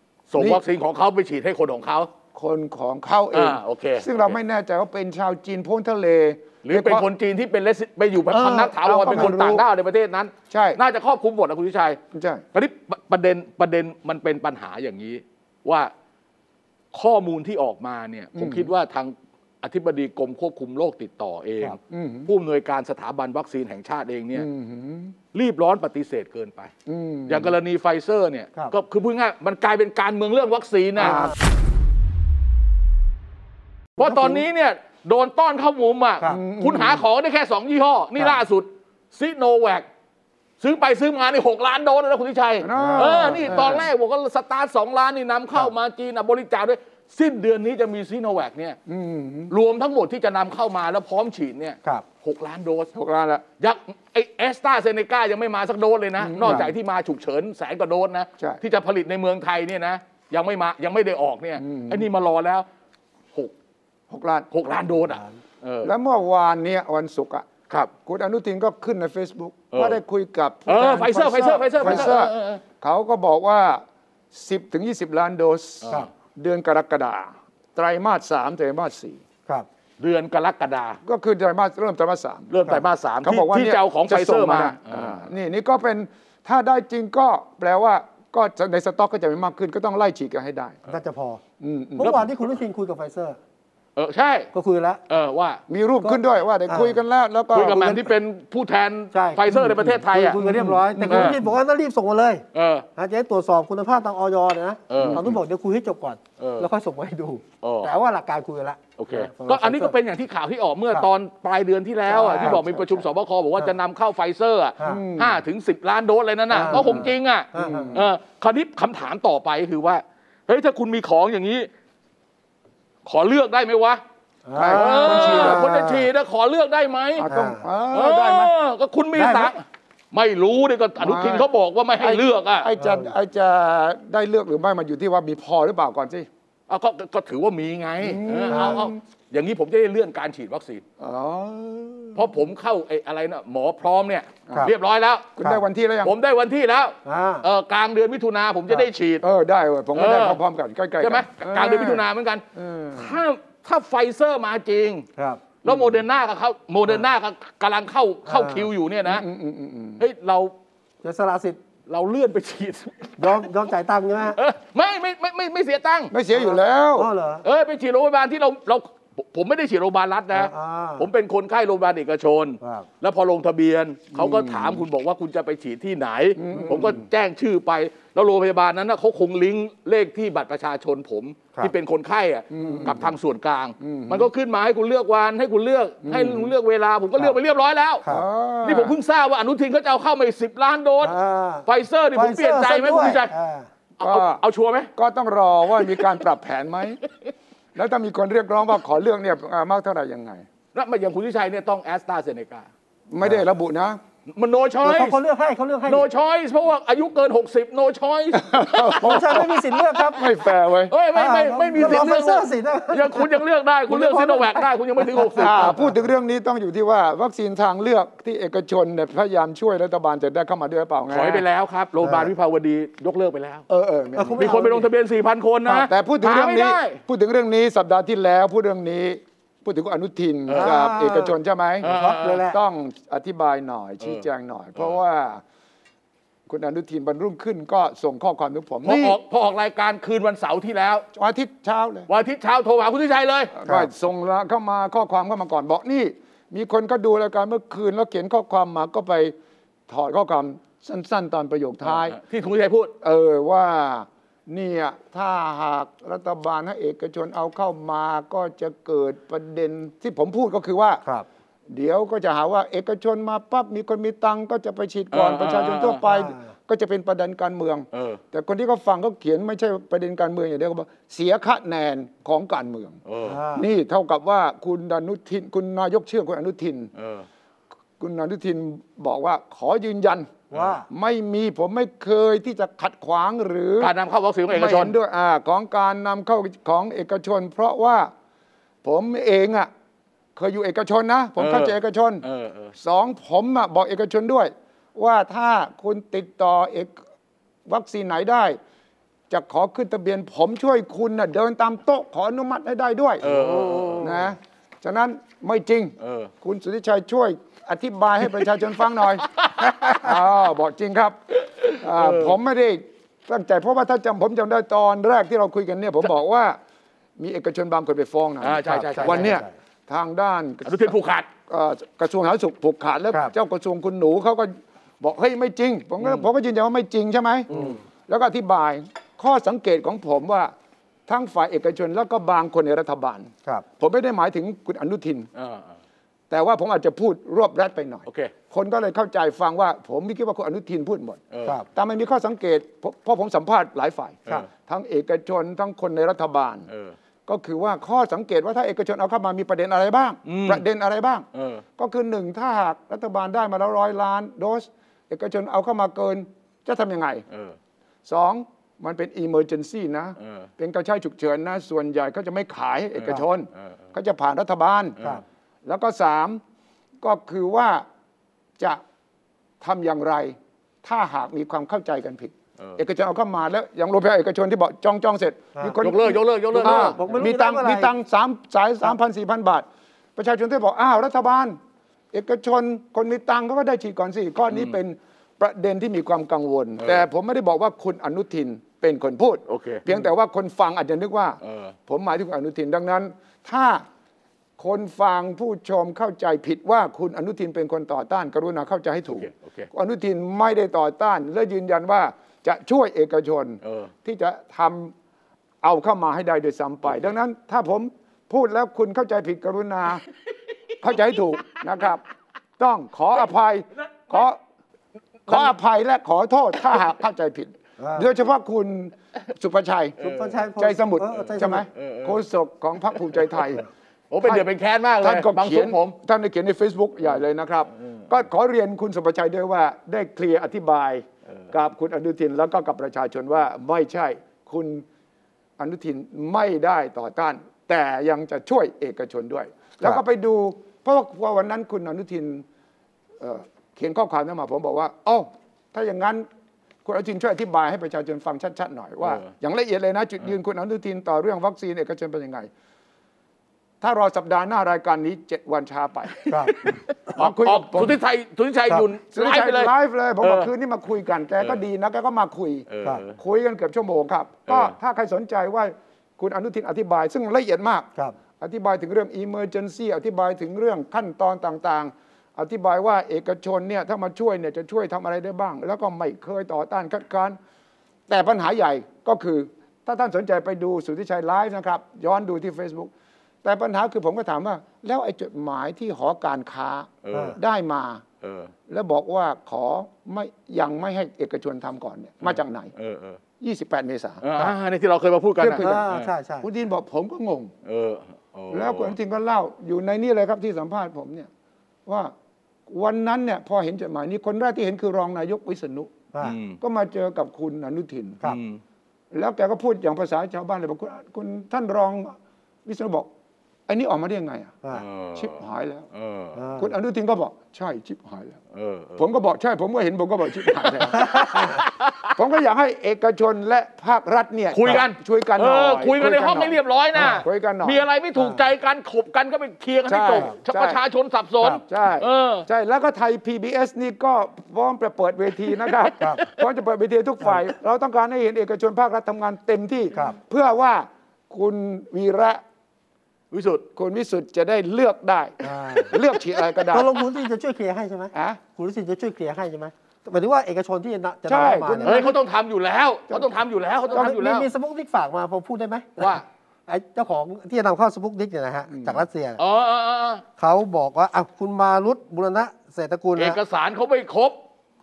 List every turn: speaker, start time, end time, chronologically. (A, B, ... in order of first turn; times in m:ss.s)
0:00.3-0:02.1 A
0:00.4-0:00.6 B
0:02.3-0:07.1 B
0:03.3-0:04.4 A
0:06.6-0:12.0 A
0:08.3-0:09.4 C
0:08.8-0:09.6 B
0:10.5-0:10.8 B
0:12.1-0:12.4 B
0:12.5-0:15.9 A
0:16.9-0:24.5 A
0:18.4-0:18.7 B
0:21.9-0:22.3 B
0:24.4-0:25.2 B
0:25.3-0:26.7 A
0:26.9-0:27.5 B
0:27.3-0:31.3 A
0:31.0-0:31.4 B
0:31.1-0:31.3 C
0:34.0-0:39.9 A
0:34.0-0:34.4 C
0:36.2-0:37.0 B
0:40.6-0:48.8 A
0:42.6-0:43.9 B
0:42.7-0:43.8 C
0:48.9-0:49.5 B
0:49.5-0:52.9 A
0:52.9-0:53.4 B
0:53.6-1:02.6 A
0:56.2-0:56.7 B
0:56.4-0:56.7 C
1:01.6-1:02.1 B
1:04.1-1:04.5 B
1:04.5-1:05.9 A
1:05.8-1:07.5 B
1:08.0-1:19.2 B
1:09.7-1:10.0 A
1:10.7-1:12.6 A
1:11.8-1:12.1 C
1:20.0-1:21.0 A
1:21.0-1:22.5 B
1:22.5-1:25.2 A
1:23.2-1:30.8 B
1:30.9-1:31.4 C
1:31.6-1:32.2 B
1:32.0-1:33.4 C
1:34.0-1:34.5 A
1:34.5-1:35.0 C
1:35.1-1:35.6 A
1:35.7-1:38.1 B
1:36.0-1:37.0 C
1:37.5-1:40.4 A
1:39.1-1:42.4 C
1:40.4-1:41.4 B
1:41.1-1:41.4 A
1:42.5-1:42.9 A
1:43.0-1:49.9 C
1:44.9-1:45.2 A
1:44.9-1:45.3 B
1:46.4-1:46.7 A
1:47.6-1:47.9 A
1:49.0-2:01.7 A
1:52.1-1:53.0 B
1:52.2-1:52.6 C
1:54.8-1:55.4 B
1:56.5-1:58.0 C
1:56.7-1:58.1 B
2:03.0-2:04.0 A
2:04.4-2:06.0 C
2:04.5-2:05.9 B
2:04.7-2:07.3 A
2:07.2-2:08.5 B
2:07.3-2:07.7 C
2:07.9-2:12.7 A
2:09.1-2:09.5 C
2:11.0-2:11.5 B
2:12.0-2:16.3 B
2:12.8-2:13.1 C
2:16.7-2:20.8 A
2:18.0-2:19.0 B
2:18.5-2:18.8 C
2:21.0-2:22.3 B
2:22.1-2:25.4 A
2:25.4-2:26.1 B
2:26.0-2:29.2 A
2:27.0-2:27.5 C
2:29.2-2:32.0 B
2:29.9-2:30.4 A
2:31.0-2:35.0 A
2:32.5-2:33.2 B
2:35.2-2:35.4 C
2:35.6-2:39.2 A
2:35.6-2:36.0 B
2:38.2-2:38.7 C
2:39.0-2:40.0 B
2:40.0-2:40.5 A
2:41.0-2:41.6 C
2:41.9-2:43.5 A
2:43.2-2:44.4 C
2:44.3-2:46.1 A
2:46.1-2:47.1 B
2:46.3-2:47.4 C
2:47.4-3:08.0 A
2:50.3-2:51.1 C
2:52.6-2:52.9 C
2:54.1-2:54.8 B
2:56.4-2:57.0 B
3:02.5-3:03.1 B
3:03.8-3:04.3 B
3:06.0-3:06.5 B
3:08.1-3:09.0 B
3:08.6-3:13.3 A
3:11.0-3:13.7 C
3:14.0-3:14.9 A
3:14.0-3:14.4 B
3:15.0-3:17.0 B
3:15.9-3:16.1 A
3:17.7-3:20.4 B
3:20.7-3:22.7 A
3:23.1-3:24.0 B
3:24.3-3:25.2 A
3:24.8-3:26.1 C
3:25.9-3:30.2 A
3:28.3-3:29.5 B
3:28.9-3:30.2 C
3:30.1-3:30.9 B
3:30.9-3:35.8 A
3:31.1-3:33.3 C
3:33.9-3:36.0 C
3:35.4-3:41.4 B
3:41.1-3:43.6 A
3:42.0-3:42.3 C
3:43.7-3:44.6 B
3:44.2-3:44.9 C
3:44.4-3:47.0 A
3:45.7-3:51.9 B
3:50.5-3:50.7 A
3:50.5-3:52.6 C
3:51.8-3:52.4 A
3:52.4-3:55.4 B
3:56.5-3:59.2 B
3:58.8-4:01.0 A
4:01.1-4:02.1 B
4:02.1-4:03.6 A
4:03.6-4:09.3 B
4:09.9-4:12.2 B
4:11.9-4:12.9 A
4:13.0-4:21.0 B
4:21.7-4:33.0 B
4:25.1-4:26.0 A
4:26.0-4:26.5 C
4:27.9-4:28.2 A
4:33.0-4:33.4 A
4:33.2-4:33.7 C
4:33.5-4:36.9 B
4:37.0-4:37.2 A
4:38.0-4:40.4 B
4:40.5-4:40.9 C
4:40.9-4:43.9 B
4:43.8-4:44.9 A
4:44.5-4:48.1 B
4:48.8-4:49.7 B
4:50.4-4:52.2 B
4:51.4-4:52.7 A
4:52.8-4:57.0 B
4:57.7-4:58.6 B
4:59.3-5:03.2 B
5:03.2-5:04.2 C
5:03.2-5:04.3 A
5:04.0-5:16.6 B
5:06.0-5:06.3 A
5:09.2-5:10.1 A
5:11.4-5:12.4 A
5:17.2-5:21.0 B
5:18.4-5:19.4 A
5:18.7-5:19.5 C
5:20.6-5:21.3 A
5:21.5-5:30.5 B
5:27.5-5:27.8 A
5:31.1-5:35.3 B
5:35.4-5:35.7 A
5:36.3-5:41.2 B
5:38.1-5:38.3 A
5:41.3-5:41.6 A
5:41.7-5:46.7 B
5:46.7-5:46.9 A
5:47.3-5:51.2 B
5:50.2-5:50.6 A
5:51.3-5:51.6 A
5:51.8-5:57.2 B
5:57.3-5:57.6 A
5:58.0-6:05.0 B
6:00.2-6:00.5 A
6:03.0-6:03.7 A
6:05.6-6:06.4 B
6:07.0-6:07.9 B
6:09.6-6:21.6 B
6:15.8-6:17.0 A
6:16.5-6:17.9 C
6:22.1-6:33.8 B
6:26.8-6:27.0 A
6:29.5-6:29.9 A
6:31.4-6:31.7 A
6:34.6-6:44.9 B
6:39.1-6:39.7 A
6:43.6-6:43.9 A
6:45.6-6:50.0 B
6:50.8-6:52.0 B
6:52.6-6:54.4 B
6:54.0-6:54.2 A
6:55.3-7:00.0 B
6:57.8-6:58.1 C
7:00.0-7:00.4 A
7:00.0-7:01.6 C
7:00.6-7:03.6 B
7:01.1-7:02.2 A
7:04.1-7:06.0 A
7:05.0-7:14.8 B
7:15.6-7:22.4 B
7:23.2-7:26.2 B
7:26.8-7:32.5 B
7:29.0-7:29.3 A
7:33.8-7:38.0 B
7:36.2-7:40.5 A
7:36.3-7:36.6 C
7:39.1-7:47.9 B
7:42.7-7:43.2 A
7:44.5-7:44.7 A
7:48.4-7:57.4 B
7:58.1-8:02.9 B
8:03.4-8:08.0 B
8:07.0-8:07.4 A
8:07.1-8:07.4 C
8:08.2-8:08.5 A
8:08.7-8:12.7 B
8:12.2-8:13.2 A
8:13.4-8:14.2 B
8:14.2-8:16.1 A
8:15.4-8:15.8 B
8:15.6-8:16.5 C
8:16.4-8:17.5 B
8:17.6-8:18.9 A
8:18.5-8:21.3 B
8:21.8-8:22.1 B
8:22.7-8:25.9 B
8:26.2-8:26.6 A
8:26.6-8:28.2 B
8:28.2-8:28.6 A
8:29.1-8:33.1 B
8:33.7-8:34.5 B
8:34.7-8:35.4 A
8:35.1-8:35.9 B
8:35.9-8:36.4 A
8:36.4-8:36.7 C
8:36.6-8:38.4 B
8:38.5-8:39.0 A
8:39.0-8:41.5 B
8:40.4-8:42.2 A
8:40.9-8:41.6 C
8:42.1-8:47.8 B
8:44.5-8:52.4 A
8:48.2-8:48.4 C
8:49.9-8:50.8 B
8:51.6-9:02.4 B
8:55.6-8:56.4 A
9:03.3-9:03.6 A
9:03.8-9:06.9 B
9:05.4-9:05.9 C
9:06.7-9:12.1 C
9:08.1-9:08.4 B
9:11.3-9:12.1 B
9:11.8-9:14.5 A
9:13.9-9:19.4 C
9:16.0-9:16.2 A
9:18.7-9:19.0 B
9:19.4-9:20.2 A
9:20.4-9:23.4 C
9:23.2-9:24.4 A